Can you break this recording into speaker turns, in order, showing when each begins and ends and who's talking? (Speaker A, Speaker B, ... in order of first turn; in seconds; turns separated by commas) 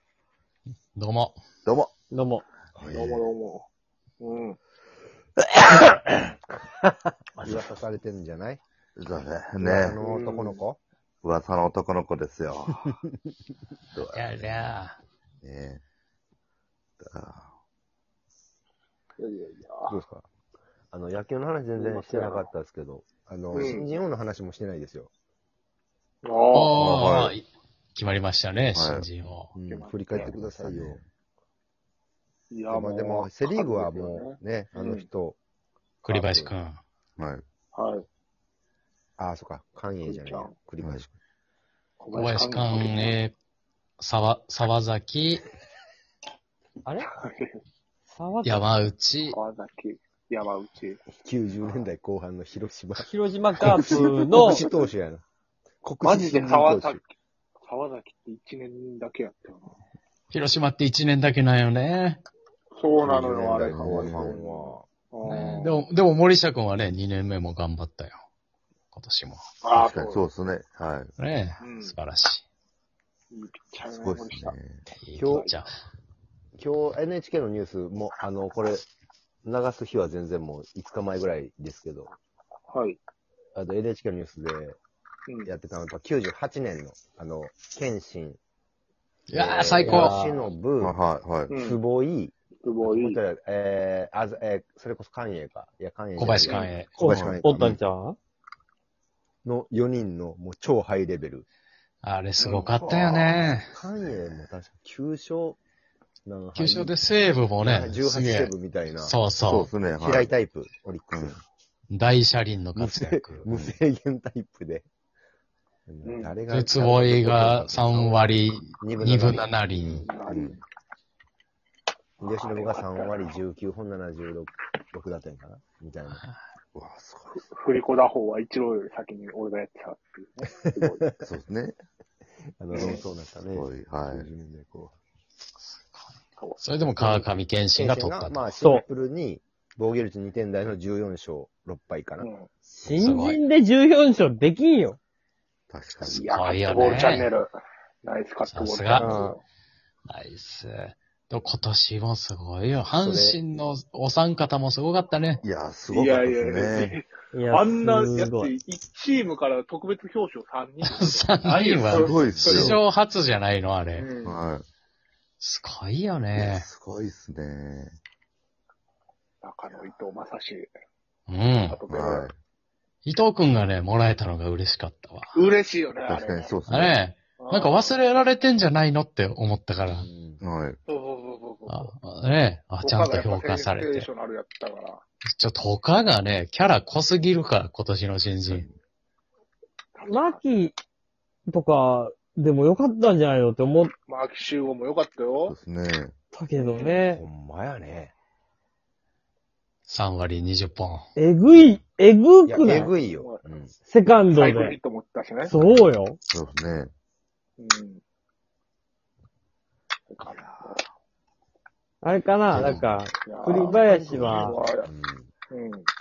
Speaker A: 0.9-1.3, Speaker B: 1.6-1.9, Speaker C: 2.1-2.4, Speaker B: 2.8-3.2, Speaker D: 2.9-3.6, Speaker D: 4.2-4.6, Speaker B: 5.5-6.1, Speaker E: 7.4-8.6, Speaker B: 8.9-10.0, Speaker E: 9.6-10.8, Speaker D: 9.9-10.6, Speaker B: 11.2-12.9, Speaker B: 13.9-14.8, Speaker A: 14.1-15.0, Speaker B: 15.4-15.8, Speaker B: 17.0-17.5, Speaker D: 19.2-19.9, Speaker E: 19.9-20.2, Speaker E: 20.9-25.1, Speaker D: 21.8-22.5, Speaker D: 23.5-23.9, Speaker D: 26.2-26.8, Speaker A: 26.5-29.5, Speaker B: 26.7-27.4, Speaker B: 28.7-29.1, Speaker E: 29.5-31.0, Speaker D: 29.7-30.3, Speaker B: 30.1-31.0, Speaker D: 32.5-35.0, Speaker E: 32.7-35.4, Speaker A: 36.0-36.8, Speaker E: 36.0-36.5, Speaker B: 37.2-37.4, Speaker D: 37.7-38.0, Speaker E: 39.2-41.1, Speaker D: 40.0-40.5, Speaker B: 40.8-41.0, Speaker D: 42.0-43.1, Speaker A: 42.1-43.3, Speaker A: 44.0-45.5, Speaker D: 47.1-47.6, Speaker C: 48.1-48.7, Speaker A: 48.4-49.4, Speaker D: 49.3-51.0, Speaker E: 51.1-55.2, Speaker C: 53.0-54.6, Speaker E: 55.8-57.0, Speaker D: 56.0-57.1, Speaker D: 57.6-59.7, Speaker A: 60.3-62.2, Speaker D: 62.8-65.9, Speaker E: 63.0-64.8, Speaker B: 63.6-64.4, Speaker A: 65.2-68.2, Speaker A: 68.9-69.4, Speaker D: 69.6-70.3, Speaker B: 69.7-71.1, Speaker A: 71.2-72.5, Speaker D: 71.6-72.0, Speaker D: 73.3-74.5, Speaker B: 74.0-74.8, Speaker A: 74.9-75.7, Speaker E: 75.2-75.5, Speaker D: 75.3-75.6, Speaker E: 76.6-78.8, Speaker E: 79.4-82.1, Speaker D: 82.7-83.0, Speaker E: 83.5-84.8, Speaker E: 85.4-88.4, Speaker A: 89.3-90.3, Speaker E: 89.3-91.0, Speaker C: 89.8-90.5, Speaker B: 90.8-91.5, Speaker D: 91.5-91.8, Speaker E: 91.5-97.8, Speaker D: 92.6-93.2, Speaker A: 96.2-97.0, Speaker D: 96.4-96.7, Speaker C: 97.0-98.2, Speaker B: 97.0-97.4, Speaker E: 99.4-101.5, Speaker A: 102.0-103.7, Speaker D: 102.4-102.8, Speaker B: 102.8-103.6, Speaker E: 103.7-105.6, Speaker E: 106.2-107.0, Speaker A: 106.5-109.7, Speaker E: 107.6-109.2, Speaker B: 109.4-110.3, Speaker E: 110.0-111.4, Speaker B: 111.1-111.4, Speaker A: 111.9-113.4, Speaker E: 112.7-114.8, Speaker B: 113.5-113.8, Speaker E: 115.9-120.5, Speaker D: 116.0-116.4, Speaker A: 116.5-120.1, Speaker D: 120.1-120.6, Speaker B: 120.3-120.6, Speaker E: 122.2-126.2, Speaker D: 122.2-123.3, Speaker B: 126.7-127.4, Speaker D: 127.3-131.1, Speaker E: 130.6-131.3, Speaker B: 131.2-131.8, Speaker E: 132.6-134.9, Speaker D: 132.7-133.0, Speaker B: 133.5-134.3, Speaker A: 136.6-138.6, Speaker E: 136.8-142.3, Speaker D: 142.2-142.5, Speaker C: 142.7-145.0, Speaker A: 143.0-143.4, Speaker B: 145.7-146.3, Speaker D: 146.0-147.5, Speaker A: 146.3-147.3, Speaker D: 148.0-149.4, Speaker A: 148.4-149.2, Speaker E: 149.0-149.3, Speaker A: 150.1-155.4, Speaker E: 152.9-153.4, Speaker B: 155.4-156.9, Speaker D: 155.9-162.8, Speaker C: 157.3-158.5, Speaker A: 160.8-164.1, Speaker B: 161.9-162.8, Speaker D: 164.0-164.4, Speaker B: 164.2-164.7, Speaker A: 165.4-166.7, Speaker B: 166.3-168.0, Speaker D: 169.4-170.7, Speaker A: 171.3-171.8, Speaker D: 171.7-172.3, Speaker B: 171.9-172.3, Speaker A: 173.0-175.3, Speaker D: 175.3-176.6, Speaker B: 176.0-177.0, Speaker A: 176.7-180.1, Speaker D: 177.4-177.9, Speaker E: 179.9-180.4, Speaker B: 180.4-180.8, Speaker D: 180.9-181.9, Speaker A: 181.7-184.1, Speaker D: 182.8-185.0, Speaker A: 185.4-188.7, Speaker B: 188.4-188.7, Speaker D: 189.9-190.4, Speaker C: 190.1-190.7, Speaker C: 191.5-193.9, Speaker D: 194.1-195.5, Speaker B: 195.5-196.1, Speaker C: 196.3-197.2, Speaker D: 196.6-197.0, Speaker E: 197.0-198.1, Speaker A: 199.9-201.1, Speaker C: 201.2-202.9, Speaker E: 202.4-203.7, Speaker D: 202.7-203.4, Speaker C: 203.9-204.8, Speaker D: 204.3-205.5, Speaker C: 205.4-206.2, Speaker B: 206.3-206.9, Speaker D: 207.6-208.0, Speaker D: 210.1-210.8, Speaker C: 212.0-214.6, Speaker B: 212.5-213.0, Speaker E: 212.5-212.8, Speaker D: 213.2-214.9, Speaker E: 214.1-215.3, Speaker D: 215.5-215.9